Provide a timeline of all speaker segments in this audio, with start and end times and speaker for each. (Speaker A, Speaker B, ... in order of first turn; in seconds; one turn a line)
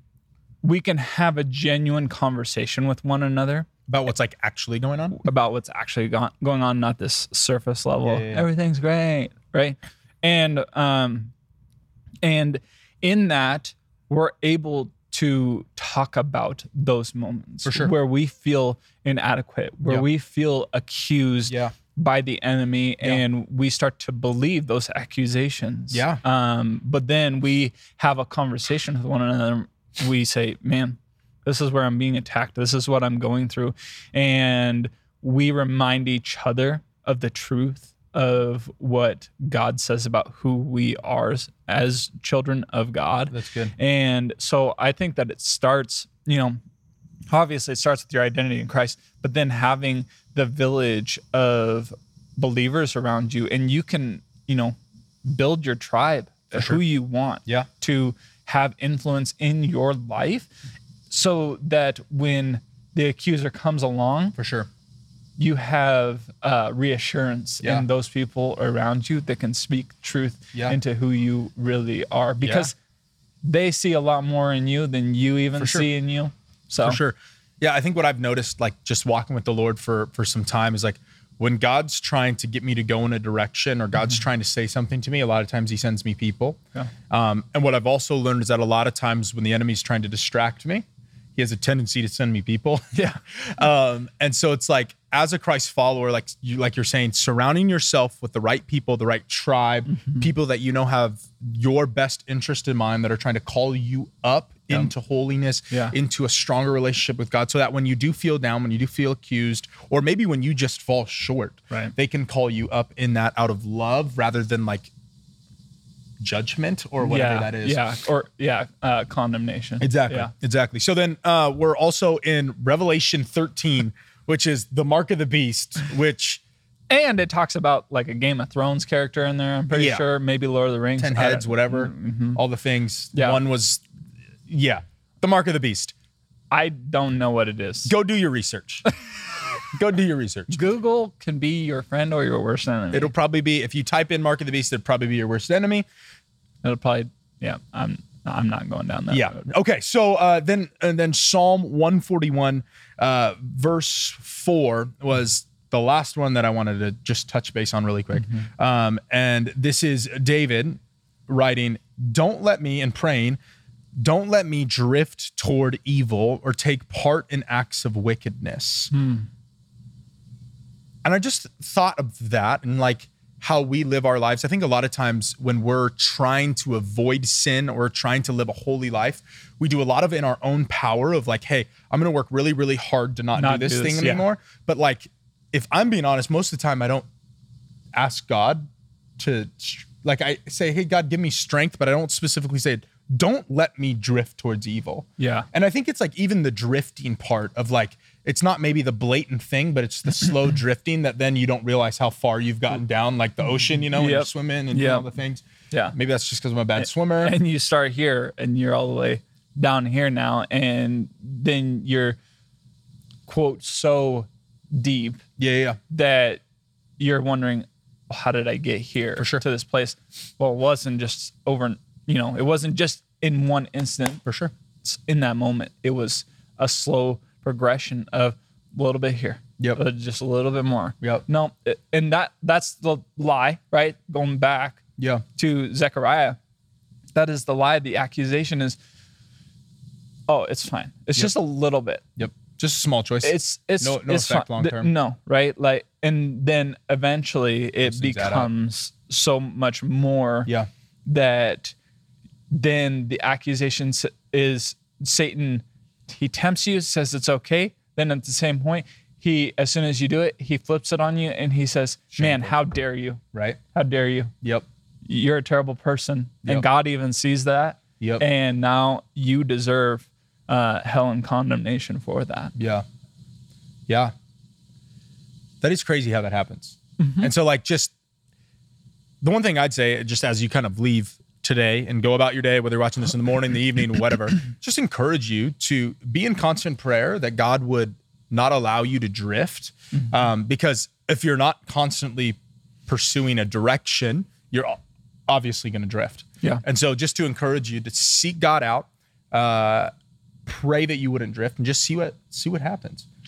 Speaker A: 0.6-3.7
Speaker B: 3.9-5.2
Speaker A: 5.1-11.3
Speaker B: 8.0-8.5
Speaker A: 12.2-46.6
Speaker B: 17.6-17.9
Speaker B: 21.5-21.7
Speaker B: 25.9-26.2
Speaker B: 43.3-43.7
Speaker A: 47.3-60.5
Speaker B: 56.5-56.8
Speaker A: 61.1-64.3
Speaker B: 64.3-64.7
Speaker A: 65.4-72.7
Speaker B: 72.4-72.7
Speaker A: 73.4-77.0
Speaker B: 75.6-75.9
Speaker B: 76.8-86.6
Speaker B: 87.1-90.8
Speaker B: 91.3-114.9
Speaker A: 99.9-100.2
Speaker B: 116.2-117.8
Speaker A: 117.0-120.3
Speaker B: 119.8-126.4
Speaker A: 126.9-132.4
Speaker B: 129.7-130.0
Speaker B: 131.0-133.8
Speaker A: 133.1-133.4
Speaker B: 134.5-135.9
Speaker A: 136.5-137.9
Speaker B: 137.8-138.8
Speaker B: 139.7-140.7
Speaker A: 140.5-143.1
Speaker B: 142.9-145.8
Speaker A: 146.6-149.4
Speaker B: 149.1-163.4
Speaker A: 158.2-158.5
Speaker B: 164.0-168.9
Speaker A: 168.9-169.3
Speaker B: 171.0-187.1
Speaker A: 183.3-184.2
Speaker B: 187.9-188.7
Speaker B: 189.2-207.3
Speaker A: 195.2-195.5
Speaker A: 203.8-205.1
Speaker A: 206.8-212.2
Speaker A: 213.3-215.2
Speaker B: 215.4-215.8
Speaker A: 215.9-216.4
Speaker A: 217.0-224.2
Speaker B: 219.2-219.4
Speaker B: 224.2-224.5
Speaker A: 224.8-234.8
Speaker B: 235.0-235.2
Speaker A: 235.3-236.4
Speaker A: 237.1-238.8
Speaker A: 240.3-242.0
Speaker B: 242.2-244.9
Speaker A: 243.2-250.5
Speaker B: 247.8-248.5
Speaker A: 251.1-251.7
Speaker A: 252.5-263.2
Speaker B: 262.1-262.5
Speaker B: 263.3-263.6
Speaker A: 263.7-264.3
Speaker A: 265.0-272.5
Speaker B: 268.0-268.2
Speaker B: 272.6-272.8
Speaker B: 273.9-274.1
Speaker B: 275.6-277.9
Speaker A: 277.0-277.3
Speaker B: 279.2-299.9
Speaker B: 300.4-303.1